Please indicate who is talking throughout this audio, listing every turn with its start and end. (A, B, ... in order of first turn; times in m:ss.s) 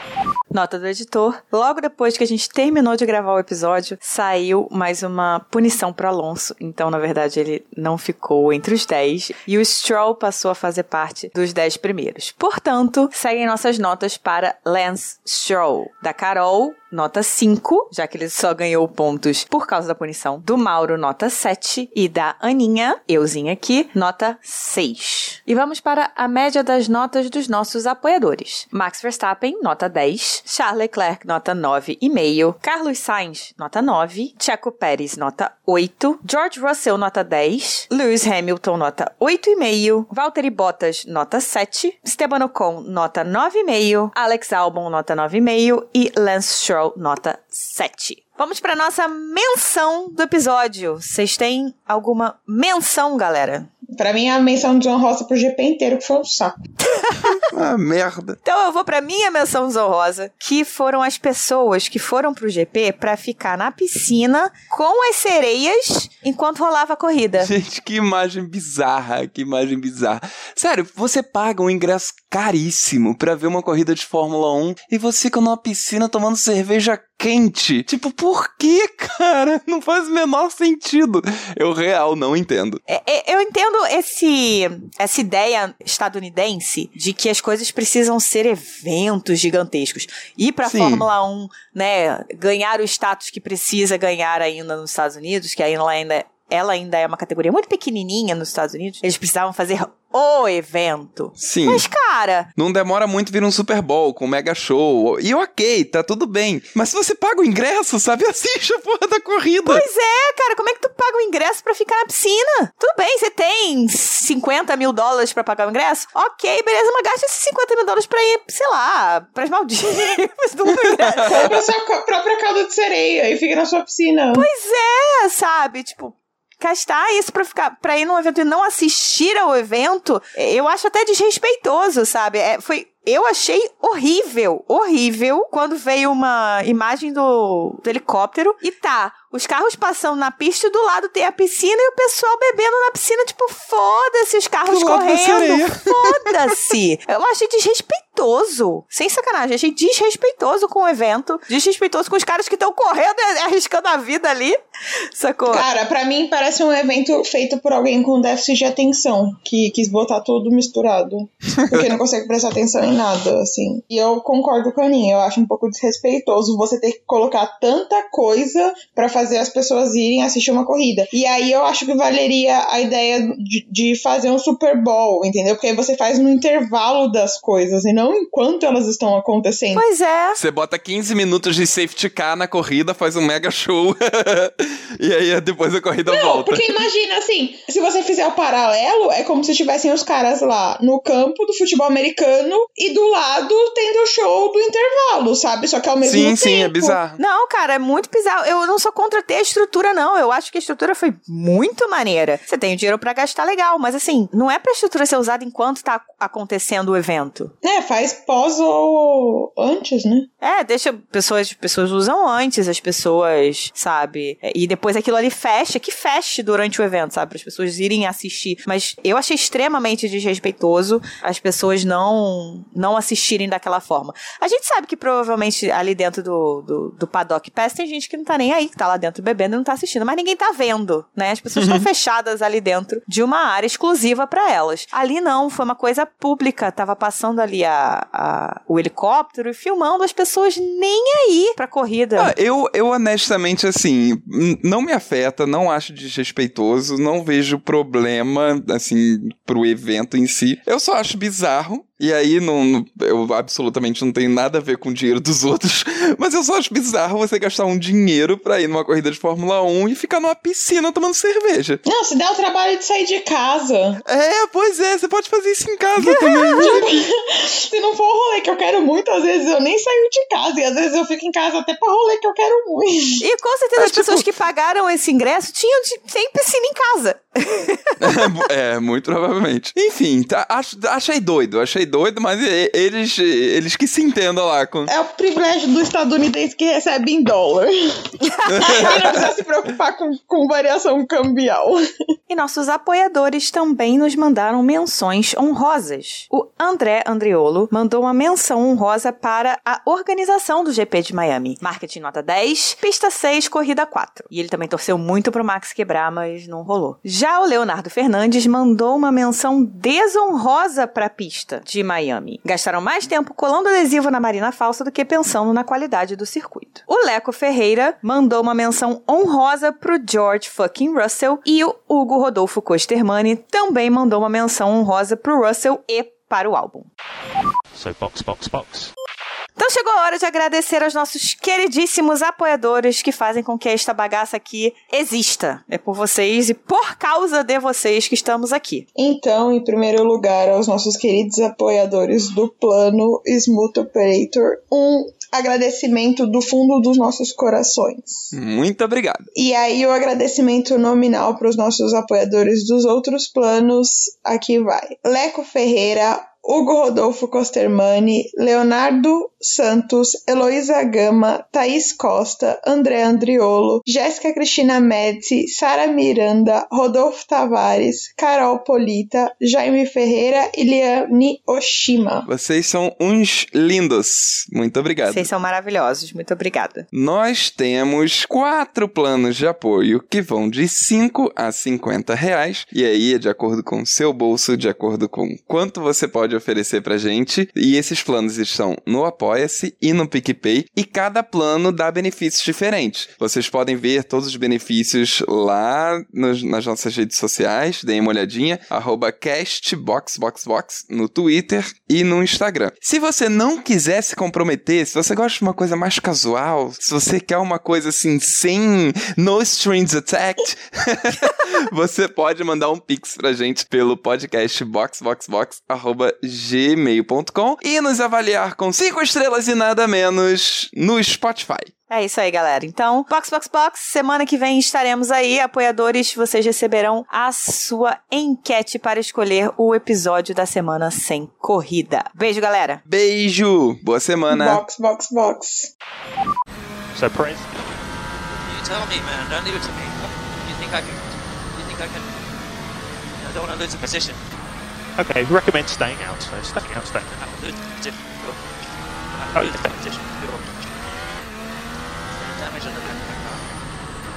0:00.5-0:53.7 A
0:53.9-0:56.6 B
0:56.8-0:57.4 A
0:57.3-0:58.4 C
0:58.4-1:07.5 A
1:07.4-1:22.8 C
1:22.9-1:42.5 A
1:30.6-1:31.0 C
1:41.4-1:41.8 C
1:42.6-1:49.8 C
1:49.6-2:01.4 A
2:00.7-2:01.6 C
2:01.2-2:04.5 B
2:04.3-2:34.6 A
2:24.6-2:26.6 C
2:35.1-2:35.7 A
2:35.5-2:59.8 B
2:41.6-2:41.9 C
2:59.7-3:00.4 A
3:00.4-3:06.6 C
3:06.1-3:17.0 B
3:16.0-3:17.2 C
3:17.2-3:27.5 A
3:27.6-3:30.3 B
3:30.4-4:02.3 A
3:51.6-3:51.8 C
4:02.2-4:21.8 C
4:21.8-4:24.0 B
4:24.0-4:27.0 C
4:26.0-4:26.8 A
4:26.6-4:33.2 B
4:33.2-4:38.2 A
4:33.8-4:34.3 C
4:38.0-4:44.9 C
4:44.8-4:48.0 B
4:48.3-4:48.8 A
4:48.5-4:49.2 C
4:48.6-4:51.8 B
4:52.3-5:26.9 A
5:27.7-5:28.9 D
5:29.6-5:38.8 A
5:39.0-5:48.3 B
5:48.3-5:49.2 C
5:49.3-6:12.3 B
6:12.3-6:15.3 C
6:15.1-6:16.8 A
6:16.9-7:01.7 C
7:01.9-7:12.8 A
7:12.9-7:14.6 C
7:14.3-7:15.7 B
7:16.9-7:17.4 D
7:18.3-7:22.1 E
7:23.2-7:24.2 E
7:25.0-7:27.0 D
7:27.0-7:28.4 E
7:29.1-7:30.5 E
7:29.3-7:29.6 D
7:32.1-7:33.4 E